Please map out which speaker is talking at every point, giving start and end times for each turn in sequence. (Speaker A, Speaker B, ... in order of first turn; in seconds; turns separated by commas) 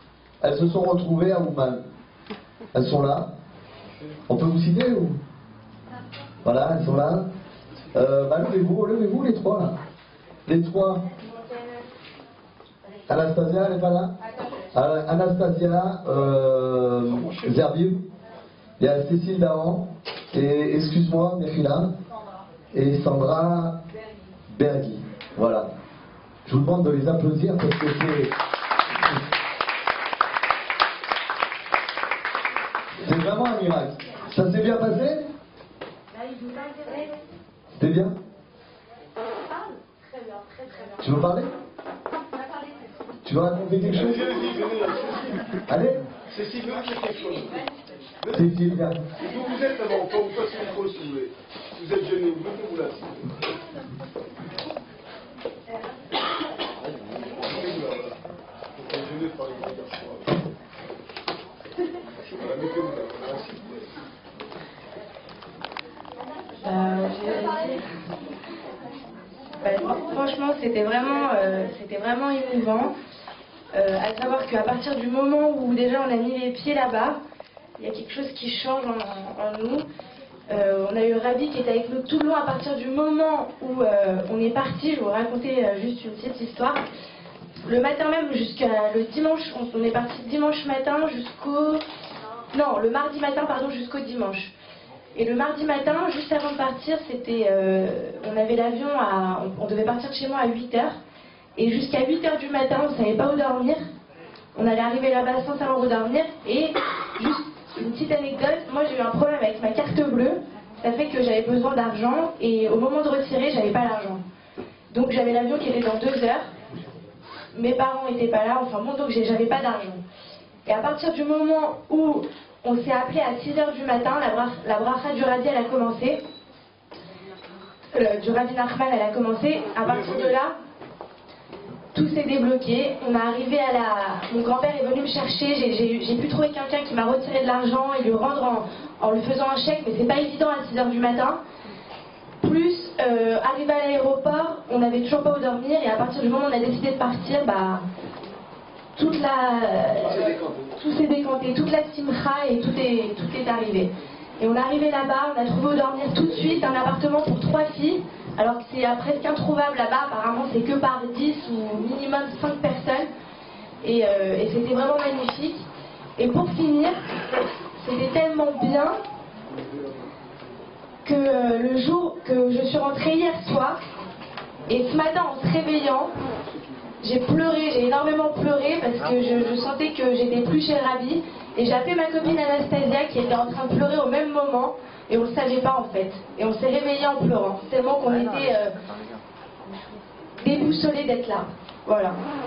Speaker A: 0.4-1.8, Speaker A: 2.7-3.3, Speaker A: 4.3-5.2, Speaker A: 6.4-7.2, Speaker A: 7.9-9.7, Speaker A: 10.4-11.1, Speaker A: 13.1-14.1, Speaker A: 14.7-18.0, Speaker B: 17.1-17.5, Speaker A: 18.8-21.9, Speaker A: 22.7-23.8, Speaker A: 24.5-25.7, Speaker A: 26.4-28.3, Speaker A: 33.0-35.3, Speaker C: 36.1-37.2, Speaker A: 37.7-38.1, Speaker C: 39.9-41.0, Speaker A: 41.0-41.5, Speaker A: 43.2-44.5, Speaker B: 43.8-45.5, Speaker A: 45.7-46.0, Speaker B: 46.3-47.7, Speaker A: 48.3-49.0, Speaker B: 49.1-53.3, Speaker B: 57.0-58.1, Speaker B: 58.8-60.3, Speaker B: 62.3-63.7, Speaker C: 66.6-67.8, Speaker C: 69.6-73.0, Speaker C: 73.7-77.2, Speaker C: 77.8-79.8, Speaker C: 80.5-86.8, Speaker C: 87.6-91.8, Speaker C: 92.5-94.5, Speaker C: 95.1-101.0, Speaker C: 101.5-103.8, Speaker C: 104.5-114.2, Speaker C: 114.9-116.5, Speaker C: 117.5-120.0, Speaker C: 120.7-126.2, Speaker C: 127.9-130.5, Speaker B: 129.9-130.3, Speaker C: 131.9-141.4, Speaker C: 142.4-147.8, Speaker C: 148.9-163.1, Speaker B: 150.1-150.7, Speaker C: 163.8-167.1, Speaker C: 167.8-169.0, Speaker C: 171.0-173.8, Speaker C: 174.7-176.2, Speaker C: 177.0-188.7, Speaker C: 190.4-192.2